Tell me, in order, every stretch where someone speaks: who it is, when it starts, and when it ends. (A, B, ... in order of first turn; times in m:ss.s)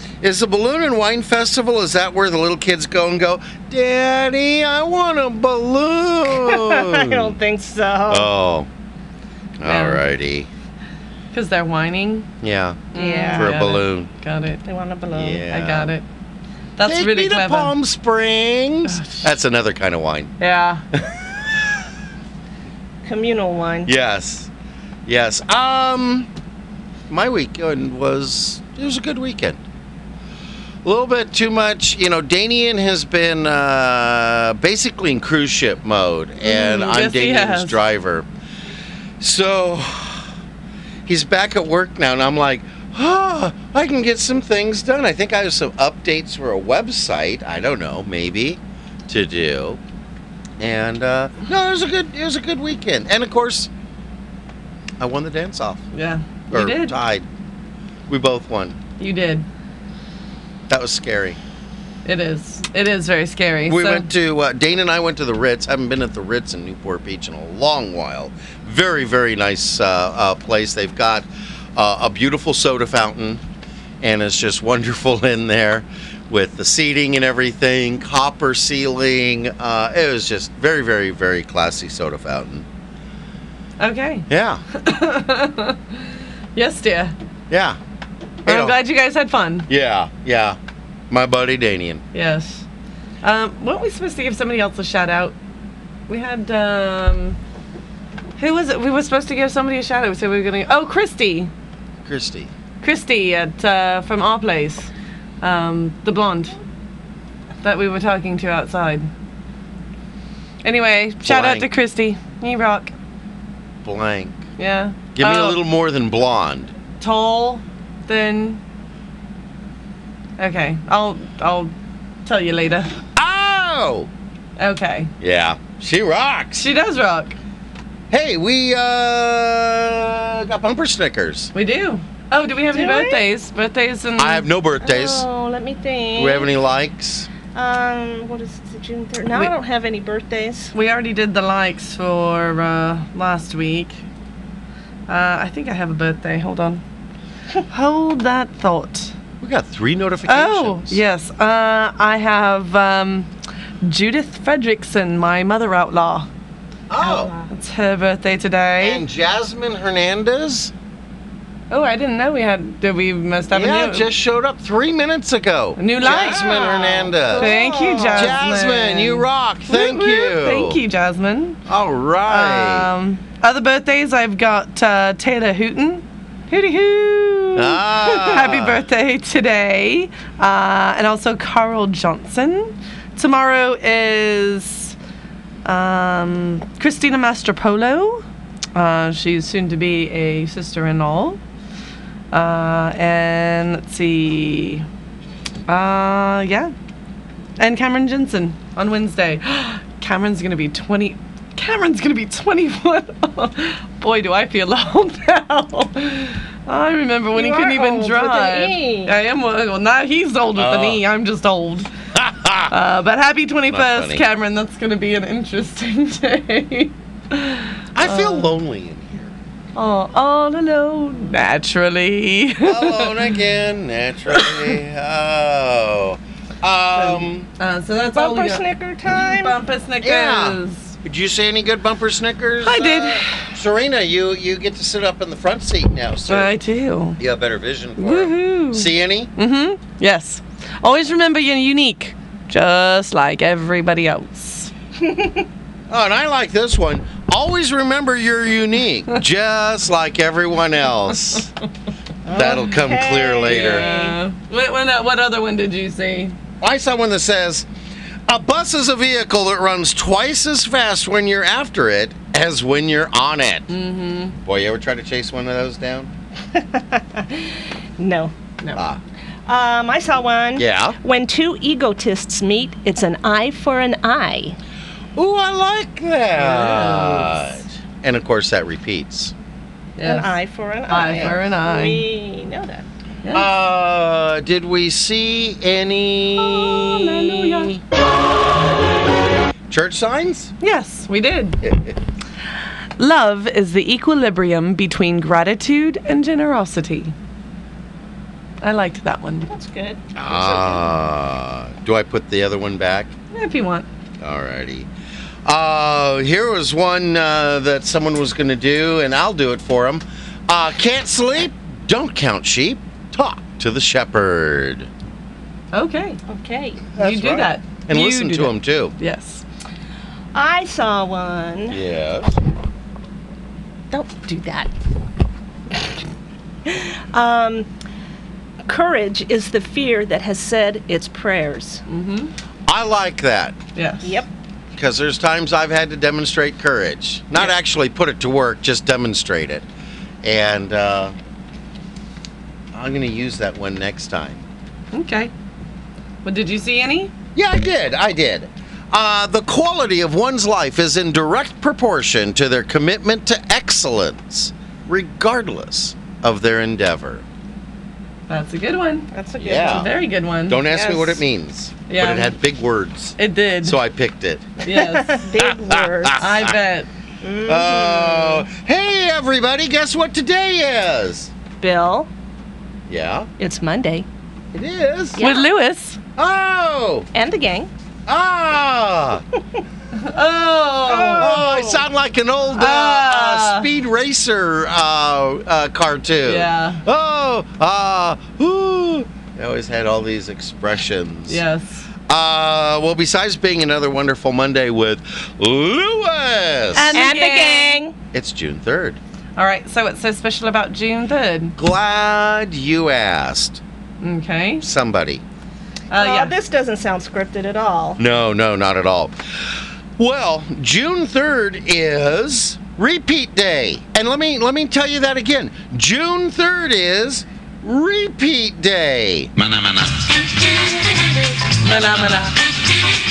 0:00.2-0:07.3 A
0:06.3-0:08.3 B
0:08.1-0:08.7 A
0:09.6-0:10.5 A
0:09.6-0:10.0 C
0:11.3-0:12.3 C
0:12.4-0:14.1 A
0:12.9-0:14.6 C
0:12.9-0:13.5 B
0:14.6-0:15.4 B
0:15.1-0:15.9 A
0:15.5-0:16.0 C
0:16.8-0:17.7 C
0:16.8-0:20.3 A
0:18.9-0:19.3 C
0:20.4-0:20.8 C
0:20.9-0:21.4 A
0:23.0-0:23.9 B
0:23.8-0:24.5 A
0:25.0-0:26.3 A
0:27.1-0:29.6 A
0:30.8-0:38.3 A
0:36.4-0:37.8 C
0:39.2-0:40.3 A
0:41.0-0:49.8 A
0:50.6-0:53.7 A
0:55.0-0:55.8 A
0:55.9-0:56.9 C
0:56.5-0:57.2 A
0:58.1-0:58.8 A
0:59.0-0:59.4 C
1:00.7-1:01.4 A
1:02.0-1:04.1 C
1:03.6-1:13.4 A
1:14.0-1:22.6 A
1:23.8-1:27.1 C
1:24.3-1:24.6 A
1:27.5-1:27.8 A
1:28.4-1:29.7 C
1:28.4-1:28.8 A
1:29.7-1:30.6 A
1:31.1-1:32.0 A
1:32.1-1:32.6 C
1:33.2-1:35.4 C
1:36.1-1:37.4 C
1:38.4-1:41.5 C
1:42.0-1:42.5 A
1:42.8-1:46.6 C
1:47.6-1:49.1 C
1:50.6-1:52.9 C
1:51.2-1:51.7 A
1:53.8-1:54.4 A
1:54.6-1:55.6 C
1:55.1-1:56.7 A
1:57.0-1:58.6 C
2:00.4-2:01.7 C
2:02.2-2:02.9 C
2:03.2-2:04.1 A
2:04.6-2:05.1 C
2:05.2-2:06.6 A
2:06.6-2:07.4 C
2:08.1-2:11.5 A
2:11.5-2:14.5 C
2:12.7-2:13.2 B
2:14.2-2:15.2 A
2:14.8-2:16.5 B
2:16.2-2:17.3 A
2:17.5-2:20.7 B
2:20.7-2:24.0 C
2:25.1-2:26.8 C
2:27.7-2:29.1 C
2:29.4-2:31.0 A
2:30.3-2:33.3 C
2:33.8-2:36.3 C
2:36.9-2:37.3 A
2:37.0-2:37.5 B
2:37.5-2:39.0 C
2:38.8-2:40.7 A
2:41.7-2:44.1 C
2:43.5-2:50.8 A
2:45.8-2:46.5 C
2:46.0-2:48.4 B
2:47.3-2:51.6 C
2:51.7-2:52.9 A
2:52.3-3:04.9 C
2:57.6-2:58.8 A
3:05.6-3:11.4 C
3:12.3-3:14.8 C
3:15.7-3:16.7 C
3:17.6-3:31.9 C
3:27.3-3:29.1 B
3:30.6-3:31.0 A
3:32.1-3:32.7 A
3:32.7-3:38.5 C
3:33.7-3:34.2 A
3:37.9-3:39.3 A
3:39.7-3:43.2 C
3:42.6-3:47.5 A
3:44.3-3:44.7 C
3:47.6-3:50.9 C
3:48.1-3:49.6 B
3:50.0-3:56.5 A
3:52.6-3:53.5 C
3:56.3-3:57.2 C
3:57.2-3:59.3 A
3:58.0-4:04.7 C
4:05.0-4:05.4 B
4:05.9-4:11.5 A
4:12.2-4:14.2 B
4:12.3-4:13.9 A
4:13.4-4:16.4 C
4:16.6-4:17.6 A
4:18.3-4:23.7 A
4:23.7-4:24.4 C
4:24.4-4:26.1 A
4:26.5-4:28.3 B
4:28.7-4:29.0 A
4:29.5-4:34.6 B
4:30.6-4:31.0 A
4:35.2-4:39.3 A
4:36.4-4:37.6 C
4:40.0-4:40.3 C
4:40.0-4:42.8 B
4:40.9-4:42.0 C
4:41.0-4:41.3 A
4:43.2-4:43.5 C
4:43.3-4:47.8 A
4:46.6-4:47.7 C
4:49.7-4:50.5 A
4:50.6-4:51.6 C
4:51.6-4:52.0 A
4:53.0-4:57.1 C
4:58.6-4:59.5 C
4:59.5-5:00.9 B
5:00.2-5:03.1 A
5:03.3-5:03.9 C
5:04.2-5:04.9 A
5:05.4-5:14.9 A
5:15.7-5:16.2 C
5:16.3-5:16.8 B
5:17.0-5:18.9 A
5:17.0-5:19.4 C
5:20.3-5:21.8 B
5:21.7-5:22.4 A
5:23.9-5:24.7 B
5:26.6-5:27.7 B
5:28.6-5:31.8 B
5:31.9-5:32.3 C
5:32.7-5:33.6 A
5:33.8-5:34.1 C
5:34.0-5:34.3 B
5:34.7-5:39.6 A
5:40.2-5:41.1 A
5:42.7-5:44.4 A
5:44.9-5:45.3 C
5:46.2-5:47.1 C
5:47.3-5:57.2 A
5:58.3-5:59.1 C
5:59.1-5:59.9 B
5:59.4-5:59.9 A
5:59.6-6:01.2 C
6:00.4-6:04.4 A
6:01.9-6:02.3 C
6:03.2-6:03.8 C
6:04.6-6:05.3 C
6:04.7-6:06.3 B
6:05.4-6:06.3 A
6:06.2-6:06.9 C
6:07.2-6:08.4 B
6:07.4-6:11.3 A
6:11.6-6:12.1 B
6:12.9-6:13.3 A
6:13.4-6:14.0 B
6:14.5-6:15.2 A
6:15.2-6:15.5 B
6:15.2-6:16.0 C
6:16.2-6:17.1 A
6:17.1-6:17.7 B
6:18.1-6:19.2 A
6:19.9-6:21.4 C
6:20.9-6:21.8 B
6:21.1-6:31.4 A
6:22.6-6:23.7 C
6:26.2-6:26.8 C
6:31.3-6:31.8 C
6:32.1-6:37.0 A
6:36.7-6:37.8 C
6:36.9-6:37.9 B
6:38.1-6:39.0 A
6:39.4-6:41.6 C
6:41.6-6:43.6 A
6:44.0-6:44.6 C
6:44.6-6:45.2 A
6:45.9-6:46.3 C
6:45.9-6:48.0 B
6:48.0-6:49.1 A
6:50.0-6:59.3 A
7:01.6-7:02.3 C